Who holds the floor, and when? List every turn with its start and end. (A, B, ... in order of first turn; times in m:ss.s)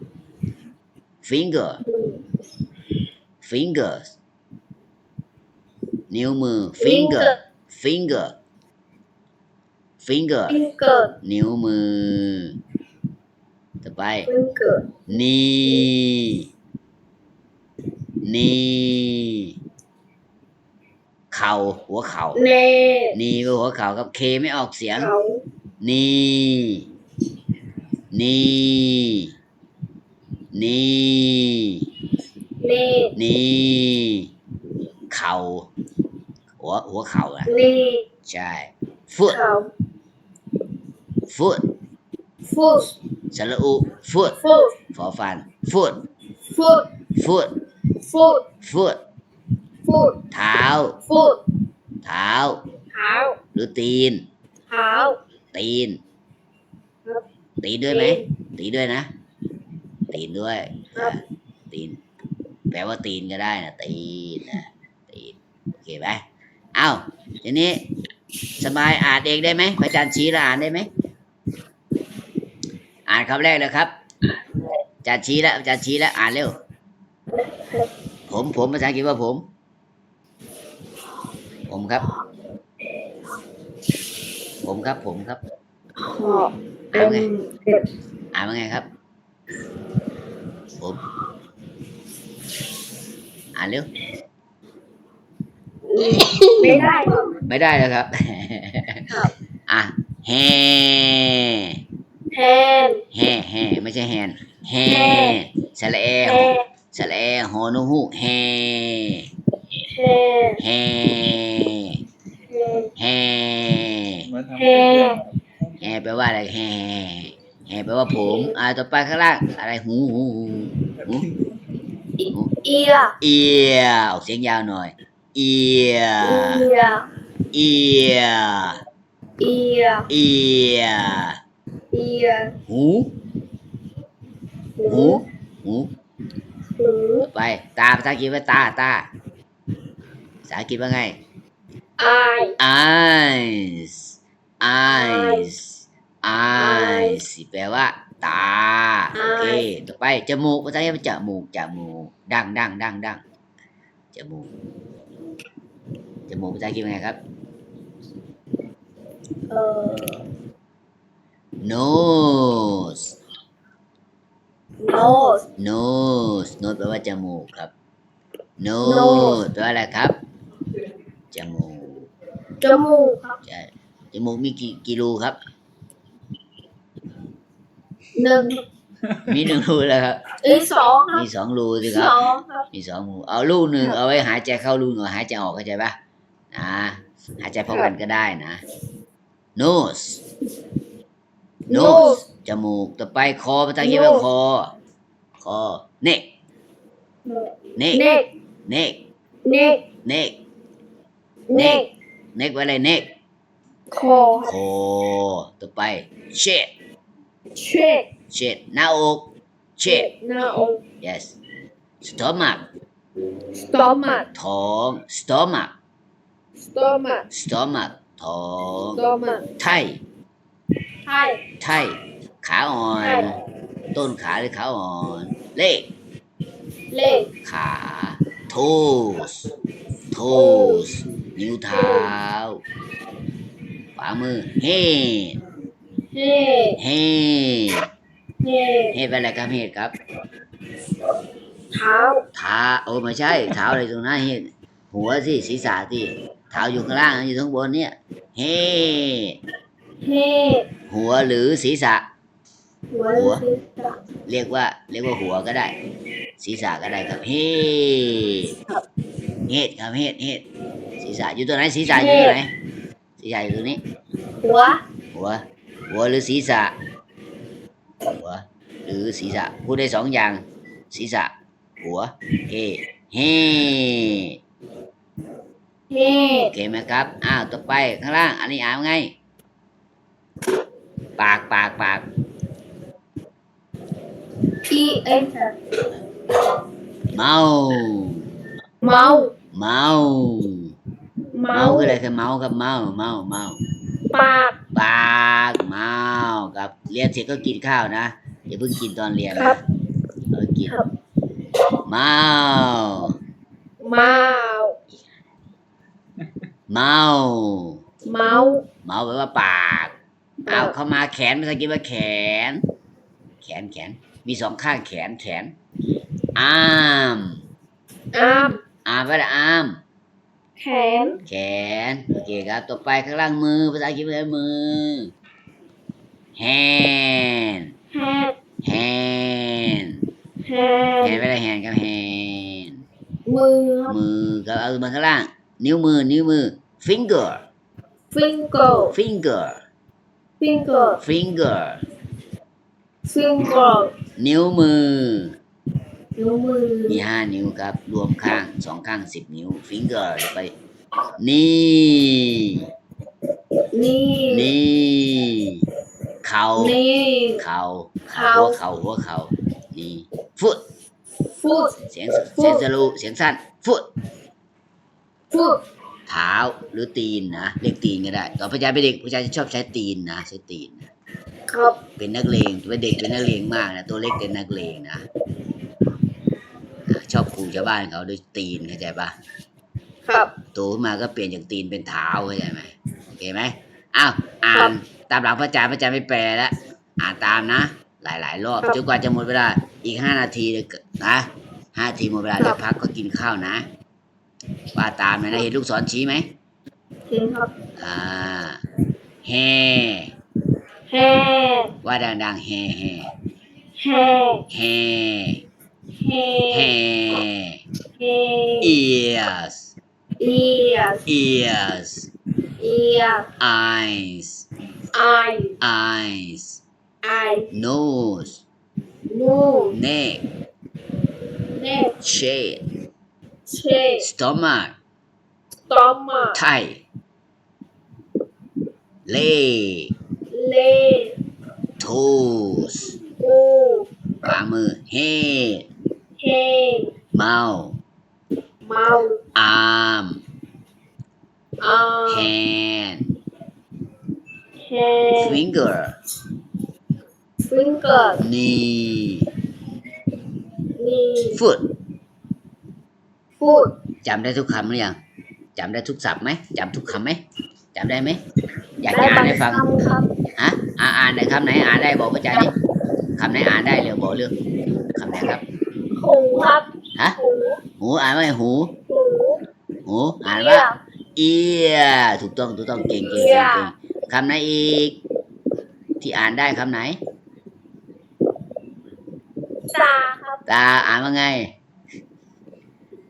0:01.2-0:01.8 A
0:01.8-0:02.2 B
0:03.4-0:04.1 A
0:06.1-0:08.4 A
0:06.8-0:07.4 B
0:10.0-0:10.6 A
0:10.5-0:11.2 B
0:11.2-0:12.6 A
0:13.8-0:14.3 A
0:14.3-0:15.0 B
0:15.1-0:16.5 A
0:18.2-0:19.5 A
0:21.3-0:22.4 A
0:22.4-0:23.2 B
0:23.1-0:25.1 A
0:25.0-0:25.4 B
0:25.8-0:26.9 A
0:28.1-0:29.3 A
0:30.5-0:31.8 A
0:32.6-0:33.1 B
0:33.2-0:34.3 A
0:35.1-0:35.7 A
0:36.6-0:37.5 A
0:37.5-0:38.1 B
0:38.2-0:39.4 A
0:39.3-0:39.7 B
0:41.3-0:41.7 A
0:42.5-0:42.9 B
0:43.3-0:46.0 A
0:44.4-0:44.8 B
0:46.5-0:46.9 B
0:47.2-0:47.6 A
0:48.0-0:48.5 B
0:48.6-0:49.0 A
0:49.8-0:50.2 B
0:50.3-0:51.0 A
0:51.1-0:51.4 B
0:52.0-0:52.6 A
0:52.9-0:53.4 B
0:53.5-0:54.3 A
0:54.7-0:55.2 B
0:55.5-0:56.0 A
0:57.6-0:59.1 A
0:57.9-0:58.2 B
1:00.1-1:02.0 A
1:02.7-1:06.2 A
1:06.8-1:07.9 A
1:08.6-1:10.9 A
1:13.1-1:13.9 A
1:15.0-1:16.6 A
1:17.6-1:17.9 B
1:18.3-1:19.5 A
1:21.7-1:22.1 A
1:24.6-1:25.4 A
1:26.0-1:27.8 B
1:26.9-1:27.3 A
1:28.3-1:28.9 A
1:33.6-1:33.9 A
1:35.9-1:37.4 B
1:37.5-1:39.0 A
1:39.7-1:41.8 A
1:42.3-1:43.0 B
1:43.1-1:49.3 A
1:44.9-1:45.4 B
1:46.2-1:46.6 B
1:49.8-1:50.6 B
1:50.6-1:52.0 A
1:52.5-1:52.9 B
1:53.0-1:54.3 A
1:54.2-1:55.8 C
1:54.6-1:55.2 B
1:55.8-2:01.3 A
1:58.2-1:58.6 B
2:01.0-2:01.5 C
2:02.6-2:03.2 B
2:03.2-2:06.7 A
2:06.2-2:07.1 B
2:07.5-2:08.8 A
2:09.4-2:10.1 B
2:10.1-2:11.4 A
2:11.9-2:12.6 B
2:12.7-2:13.1 A
2:14.8-2:15.2 B
2:14.9-2:15.9 A
2:16.8-2:17.3 B
2:17.3-2:19.1 A
2:20.4-2:21.2 A
2:22.0-2:22.6 B
2:22.6-2:33.2 A
2:24.9-2:25.5 B
2:26.6-2:27.2 B
2:29.2-2:29.7 B
2:34.1-2:34.5 A
2:36.3-2:37.2 A
2:39.5-2:40.2 B
2:41.6-2:43.1 A
2:44.8-2:45.4 B
2:45.6-2:47.7 A
2:48.6-2:50.2 A
2:48.8-2:49.4 B
2:51.3-2:52.1 A
2:52.6-2:53.4 B
2:53.4-2:55.4 A
2:58.2-2:58.6 B
2:59.2-3:00.2 A
3:00.4-3:01.2 B
3:01.1-3:02.2 A
3:01.9-3:02.7 B
3:02.7-3:06.0 A
3:06.5-3:08.6 A
3:09.6-3:10.2 A
3:11.7-3:12.2 B
3:11.7-3:14.7 A
3:13.8-3:14.2 B
3:15.4-3:16.3 A
3:17.2-3:18.3 B
3:17.8-3:19.0 A
3:19.4-3:19.8 B
3:20.0-3:20.4 A
3:21.5-3:21.9 B
3:21.5-3:23.1 A
3:23.9-3:24.5 B
3:24.4-3:26.7 A
3:27.6-3:28.1 B
3:28.3-3:30.1 A
3:29.9-3:30.8 B
3:31.0-3:31.4 A
3:32.0-3:32.6 A
3:33.6-3:34.3 B
3:34.3-3:35.7 A
3:36.6-3:37.3 B
3:37.3-3:39.0 A
3:39.0-3:39.5 B
3:39.6-3:40.0 A
3:41.0-3:41.4 B
3:41.6-3:43.4 A
3:43.0-3:43.3 B
3:43.9-3:45.9 A
3:46.9-3:47.3 B
3:47.4-3:49.5 A
3:50.1-3:52.6 A
3:50.3-3:50.8 B
3:51.8-3:52.1 B
3:54.0-3:55.4 A
3:56.1-3:56.8 B
3:56.8-3:57.9 A
3:58.4-3:59.0 B
3:58.9-3:59.9 A
4:01.7-4:02.2 B
4:02.4-4:09.4 A
4:10.0-4:10.7 B
4:10.9-4:12.1 A
4:12.9-4:14.0 B
4:13.2-4:13.4 A
4:14.3-4:15.8 A
4:16.4-4:18.6 A
4:19.5-4:20.4 A
4:21.0-4:22.5 A
4:21.9-4:22.4 B
4:23.2-4:23.8 A
4:24.4-4:24.8 B
4:25.1-4:26.8 A
4:28.1-4:34.4 A
4:35.9-4:36.5 B
4:36.4-4:39.1 A
4:41.2-4:42.1 A
4:44.7-4:45.6 B
4:47.1-4:48.2 A
4:48.8-4:49.3 B
4:49.5-4:50.7 A
4:51.3-4:52.0 B
4:51.5-4:53.6 A
4:54.1-4:54.6 B
4:54.7-4:59.6 A
5:00.3-5:00.8 A
5:01.8-5:03.2 A
5:03.8-5:04.8 B
5:06.7-5:07.8 A
5:08.1-5:08.6 B
5:08.8-5:09.9 A
5:10.4-5:10.7 B
5:10.5-5:12.6 A
5:13.4-5:15.5 A
5:16.4-5:17.4 A
5:18.1-5:18.6 B
5:18.9-5:19.8 A
5:20.6-5:21.2 B
5:21.3-5:25.1 A
5:26.4-5:27.7 A
5:27.9-5:28.4 B
5:28.6-5:30.0 A
5:30.4-5:31.2 B
5:31.0-5:32.8 A
5:33.3-5:34.0 B
5:33.9-5:37.4 A
5:38.1-5:39.0 B
5:38.9-5:39.6 A
5:40.4-5:41.0 B
5:41.0-5:41.8 A
5:43.1-5:43.9 B
5:44.2-5:45.4 A
5:46.2-5:47.0 B
5:46.9-5:50.5 A
5:51.2-5:52.6 A
5:53.7-5:54.5 B
5:54.3-5:55.6 A
5:56.2-5:56.8 A
5:56.6-5:57.4 B
5:57.4-6:00.6 A
5:58.2-5:58.6 B
6:01.4-6:01.8 B
6:01.9-6:03.9 A
6:02.4-6:02.6 B
6:05.3-6:05.6 B
6:06.1-6:10.9 A
6:11.5-6:11.8 B
6:12.0-6:15.0 A
6:16.9-6:19.2 A
6:20.1-6:20.3 B
6:20.5-6:33.7 A
6:34.8-6:36.3 A
6:37.1-6:37.5 B
6:37.8-6:38.6 A
6:39.2-6:40.1 A
6:40.9-6:41.7 B
6:41.8-6:43.1 A
6:43.8-6:44.4 B
6:44.5-6:45.4 A
6:46.0-6:46.7 B
6:46.5-6:47.6 A
6:48.0-6:48.8 B
6:48.6-6:49.8 A
6:50.2-6:51.0 B
6:51.1-6:52.1 A
6:52.6-6:53.3 B
6:53.4-6:54.5 A
6:54.9-6:55.6 B
6:55.6-6:56.6 A
6:57.0-6:57.5 B
6:57.5-6:58.4 A
6:59.1-6:59.8 B
6:59.7-7:00.3 A
7:01.5-7:02.0 B
7:02.0-7:02.6 A
7:03.5-7:04.1 B
7:04.0-7:04.8 A
7:05.7-7:06.4 B
7:06.4-7:06.8 A
7:09.1-7:09.9 A
7:10.3-7:11.2 B
7:11.8-7:13.0 A
7:13.2-7:13.9 B
7:14.2-7:15.7 A
7:16.2-7:16.9 B
7:17.1-7:17.8 A
7:18.6-7:19.2 B
7:19.4-7:20.2 A
7:21.6-7:22.3 B
7:22.1-7:23.1 A
7:24.6-7:25.4 B
7:25.2-7:26.0 A
7:27.5-7:28.2 B
7:28.2-7:29.3 A
7:30.8-7:31.4 B
7:31.3-7:31.7 A
7:33.4-7:33.7 B
7:34.0-7:35.0 A
7:35.6-7:37.2 A
7:37.7-7:38.2 A
7:38.8-7:39.7 A
7:38.9-7:40.1 B
7:40.4-7:42.5 A
7:43.2-7:44.4 A
7:45.0-7:45.4 A
7:46.0-7:47.6 B
7:47.8-7:48.8 A
7:48.9-7:49.4 B
7:49.8-7:55.0 A
7:50.3-7:50.8 B
7:53.1-7:53.7 B
7:56.0-7:57.0 A
7:59.7-8:00.4 B
8:00.5-8:01.5 A